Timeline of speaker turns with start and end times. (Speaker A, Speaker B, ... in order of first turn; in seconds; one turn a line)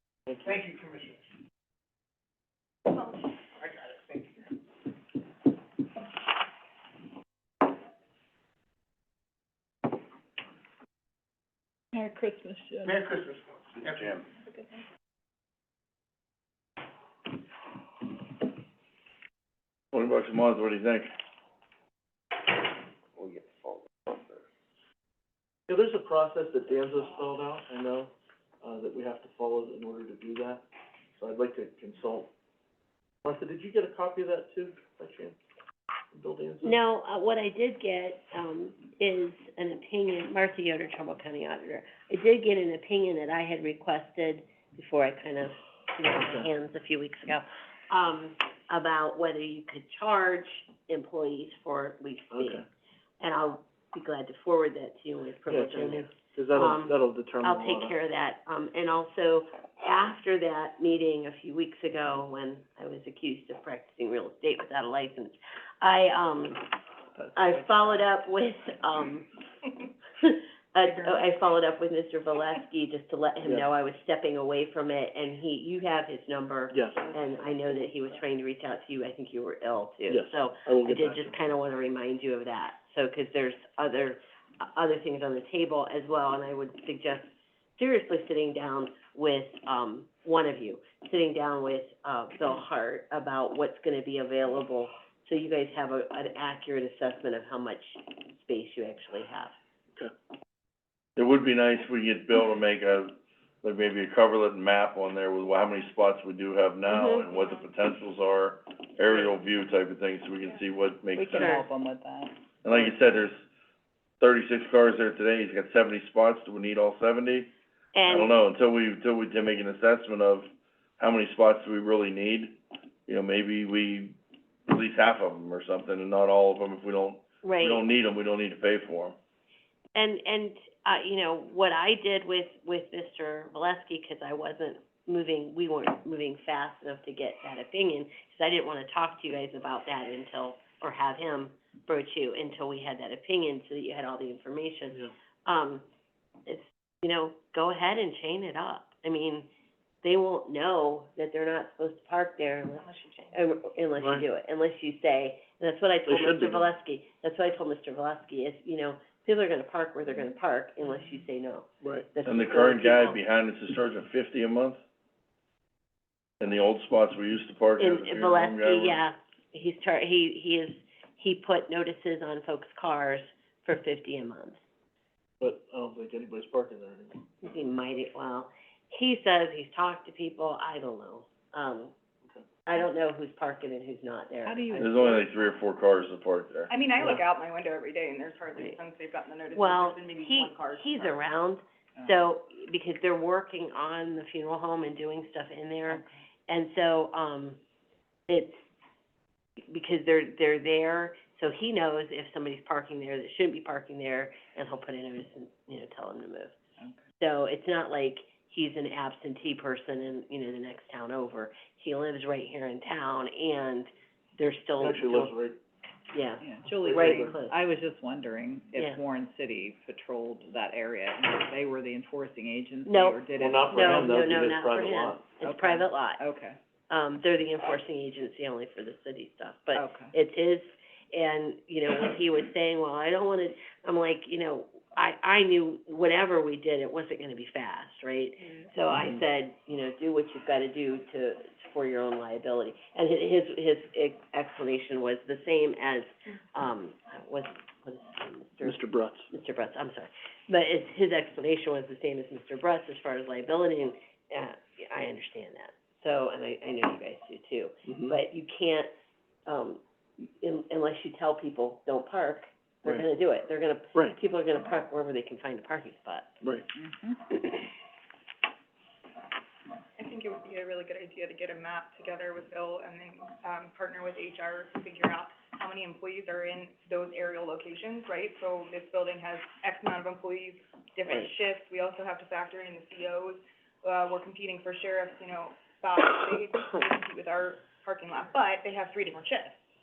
Speaker A: 0.3-0.6
Speaker B: 0.4-1.2
Speaker B: 3.5-4.5
Speaker C: 11.9-13.1
Speaker B: 12.9-14.1
Speaker D: 19.9-21.1
Speaker D: 23.3-23.6
Speaker A: 25.7-30.6
Speaker A: 31.2-32.3
Speaker A: 33.2-35.4
Speaker A: 36.1-36.8
Speaker E: 36.6-52.6
Speaker A: 52.3-52.6
Speaker E: 53.2-66.8
Speaker A: 55.5-58.0
Speaker E: 67.3-69.3
Speaker E: 70.2-99.5
Speaker A: 76.7-77.0
Speaker A: 80.1-81.3
Speaker D: 101.2-111.7
Speaker E: 106.9-107.2
Speaker C: 111.1-112.4
Speaker E: 111.3-111.6
Speaker D: 112.6-113.4
Speaker D: 114.2-117.5
Speaker E: 117.9-118.3
Speaker D: 118.0-122.6
Speaker D: 123.1-124.2
Speaker D: 124.7-129.2
Speaker E: 127.4-127.8
Speaker E: 129.9-145.8
Speaker E: 146.4-149.5
Speaker E: 150.0-163.2
Speaker F: 152.8-153.3
Speaker A: 154.0-154.2
Speaker A: 156.1-156.7
Speaker A: 161.8-162.1
Speaker D: 162.2-164.8
Speaker D: 166.4-169.0
Speaker E: 167.8-174.6
Speaker A: 175.4-177.2
Speaker E: 177.4-181.9
Speaker E: 182.7-185.2
Speaker C: 184.4-185.2
Speaker D: 184.8-186.7
Speaker F: 186.7-191.2
Speaker E: 189.5-197.6
Speaker C: 195.9-196.2
Speaker E: 198.3-198.6
Speaker E: 199.7-206.5
Speaker E: 207.2-215.3
Speaker A: 214.8-215.6
Speaker E: 216.1-217.6
Speaker C: 216.4-224.6
Speaker A: 216.8-217.3
Speaker E: 222.8-226.2
Speaker A: 223.4-225.3
Speaker C: 225.4-226.6
Speaker E: 226.9-258.9
Speaker C: 229.7-230.1
Speaker A: 248.6-249.3
Speaker A: 257.9-258.1
Speaker E: 259.5-266.4
Speaker A: 266.4-266.7
Speaker C: 266.7-267.2
Speaker F: 270.0-289.6